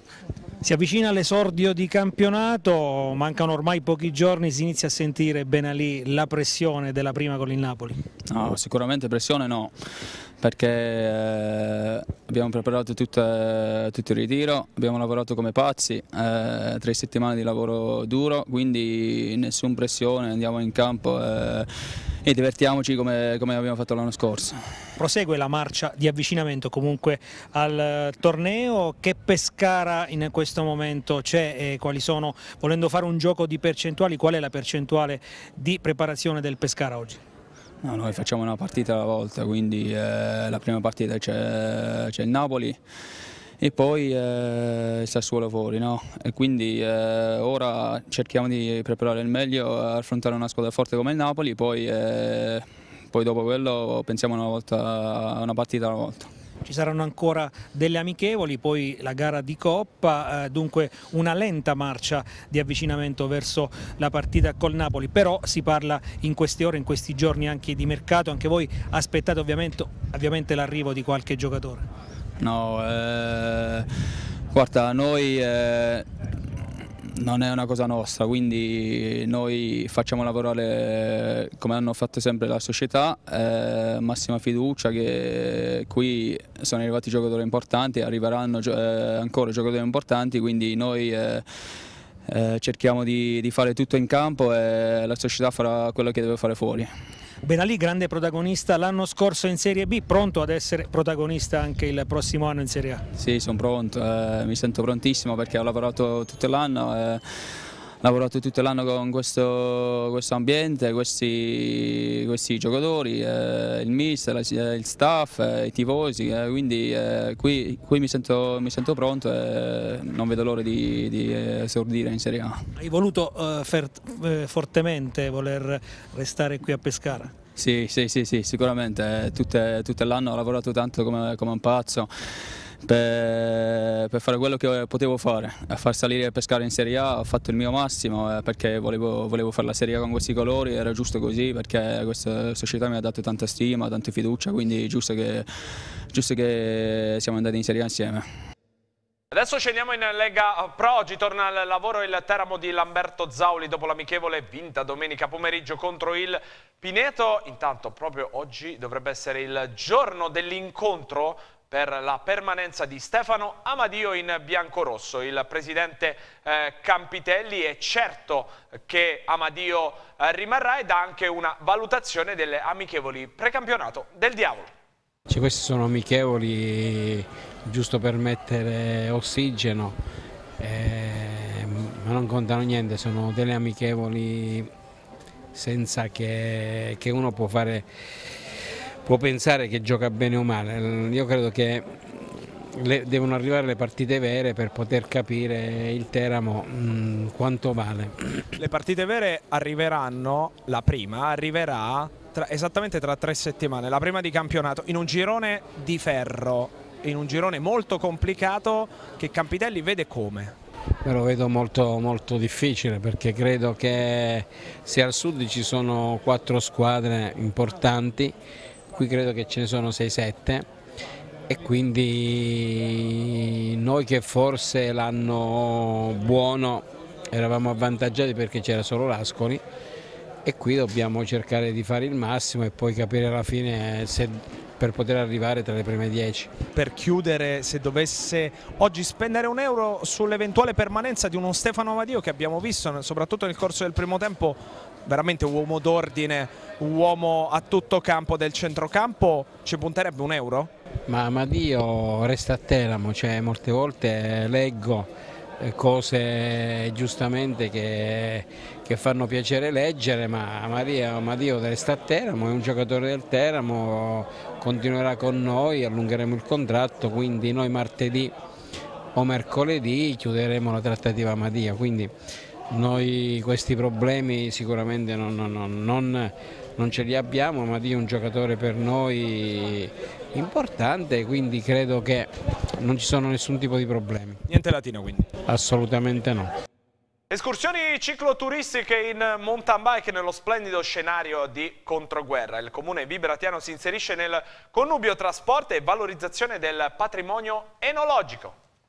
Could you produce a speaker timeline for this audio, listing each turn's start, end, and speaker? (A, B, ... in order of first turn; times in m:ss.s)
0:00.6-0:08.0 A
0:08.3-0:09.7 B
0:10.4-0:21.7 B
0:22.2-0:24.6 B
0:25.0-0:37.2 A
0:37.8-0:42.8 B
0:43.6-0:56.3 B
0:56.6-1:11.8 A
1:12.4-1:13.9 B
1:14.5-1:16.1 B
1:17.1-1:31.4 B
1:32.3-1:36.9 B
1:37.4-1:43.0 A
1:43.1-1:47.2 B
1:48.0-2:02.6 B
2:02.8-2:07.3 A
2:07.5-2:12.1 B
2:12.8-2:25.5 B
2:26.1-2:28.2 B
2:29.3-2:54.7 C
2:55.3-3:00.0 D
3:00.6-3:04.7 D
3:05.5-3:08.2 D
3:09.0-3:18.5 D
3:18.6-3:30.5 C
3:31.0-3:38.3 D
3:38.9-3:40.7 D
3:41.5-3:49.6 D
3:50.4-3:56.5 D
3:56.7-4:10.7 C
4:11.1-4:28.3 D
4:29.1-4:32.1 D
4:32.7-4:44.4 D
4:44.5-4:45.3 C
4:45.4-4:46.5 D
4:47.3-4:58.6 C